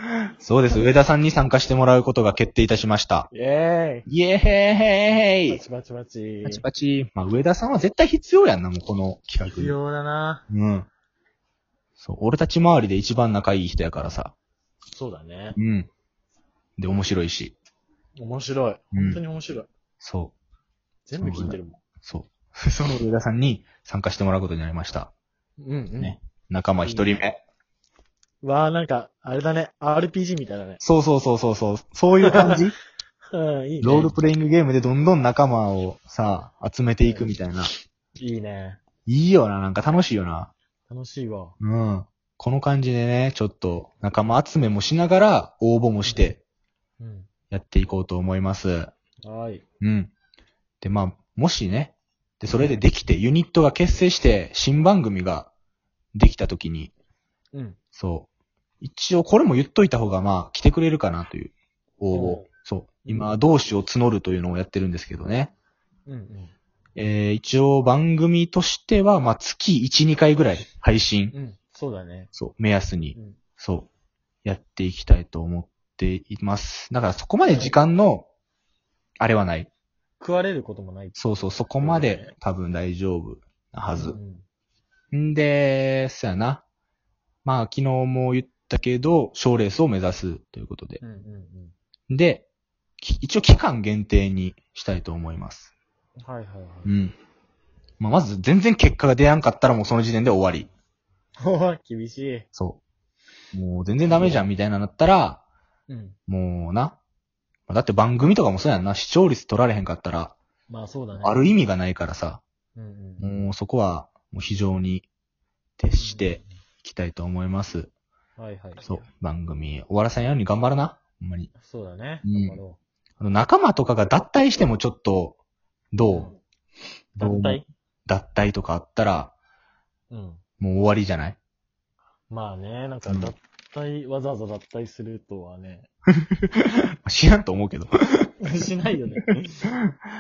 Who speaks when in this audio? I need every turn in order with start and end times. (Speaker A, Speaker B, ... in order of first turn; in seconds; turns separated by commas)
Speaker A: 0.4-3.3, Speaker B: 3.3-4.1, Speaker A: 4.1-5.6, Speaker B: 5.5-6.6, Speaker A: 6.4-9.8, Speaker B: 9.5-10.4, Speaker A: 10.5-10.9, Speaker A: 12.0-14.3, Speaker B: 14.9-15.6, Speaker A: 15.6-15.9, Speaker A: 16.8-17.5, Speaker B: 18.2-19.7, Speaker A: 18.9-19.2, Speaker A: 20.0-20.3, Speaker B: 21.1-21.8, Speaker A: 21.2-25.1, Speaker B: 25.6-26.2, Speaker A: 26.0-27.4, Speaker B: 26.8-27.2, Speaker B: 28.4-30.8, Speaker A: 30.8-32.8, Speaker B: 32.3-32.6, Speaker B: 33.3-34.1, Speaker A: 33.8-37.7, Speaker B: 37.0-37.3, Speaker B: 38.2-38.8, Speaker A: 39.0-40.5, Speaker B: 40.9-41.5, Speaker A: 41.6-46.4, Speaker B: 46.0-46.3, Speaker B: 47.0-47.3, Speaker A: 47.5-48.9, Speaker B: 49.2-49.6, Speaker A: 49.8-50.1, Speaker A: 50.8-55.5, Speaker A: 56.1-56.9, Speaker B: 57.5-57.8, Speaker A: 58.0-58.3, Speaker A: 58.8-65.5, Speaker B: 62.1-62.5, Speaker B: 63.0-63.3, Speaker B: 66.0-66.5, Speaker A: 67.0-71.3, Speaker B: 71.3-72.3, Speaker A: 72.3-73.9, Speaker B: 73.1-73.4, Speaker A: 74.5-78.3, Speaker B: 77.5-77.7, Speaker A: 79.2-79.7, Speaker B: 80.2-82.3, Speaker A: 81.2-84.2, Speaker B: 84.0-84.5, Speaker A: 85.1-86.6, Speaker A: 87.5-91.0, Speaker B: 91.0-91.7, Speaker A: 92.1-92.5, Speaker A: 93.0-95.7, Speaker B: 96.2-96.9, Speaker A: 96.8-97.2, Speaker A: 98.0-100.7, Speaker B: 101.4-102.5, Speaker A: 102.5-102.8, Speaker A: 103.5-105.4, Speaker B: 104.0-104.5, Speaker B: 105.9-106.2, Speaker A: 106.3-107.0, Speaker A: 107.7-110.3, Speaker B: 110.7-111.5, Speaker A: 111.2-112.4, Speaker B: 112.8-113.5, Speaker A: 113.2-115.1, Speaker A: 115.8-117.9, Speaker B: 116.0-116.5, Speaker B: 118.4-119.0, Speaker A: 118.8-121.5, Speaker B: 121.5-122.8, Speaker A: 122.2-122.6, Speaker A: 123.2-125.4, Speaker A: 125.9-126.3, Speaker B: 126.0-126.4, Speaker B: 127.2-127.7, Speaker A: 127.2-129.3, Speaker B: 130.1-130.4, Speaker A: 130.6-131.4, Speaker B: 132.3-135.9, Speaker A: 133.1-133.3, Speaker A: 136.5-138.3, Speaker B: 138.4-139.7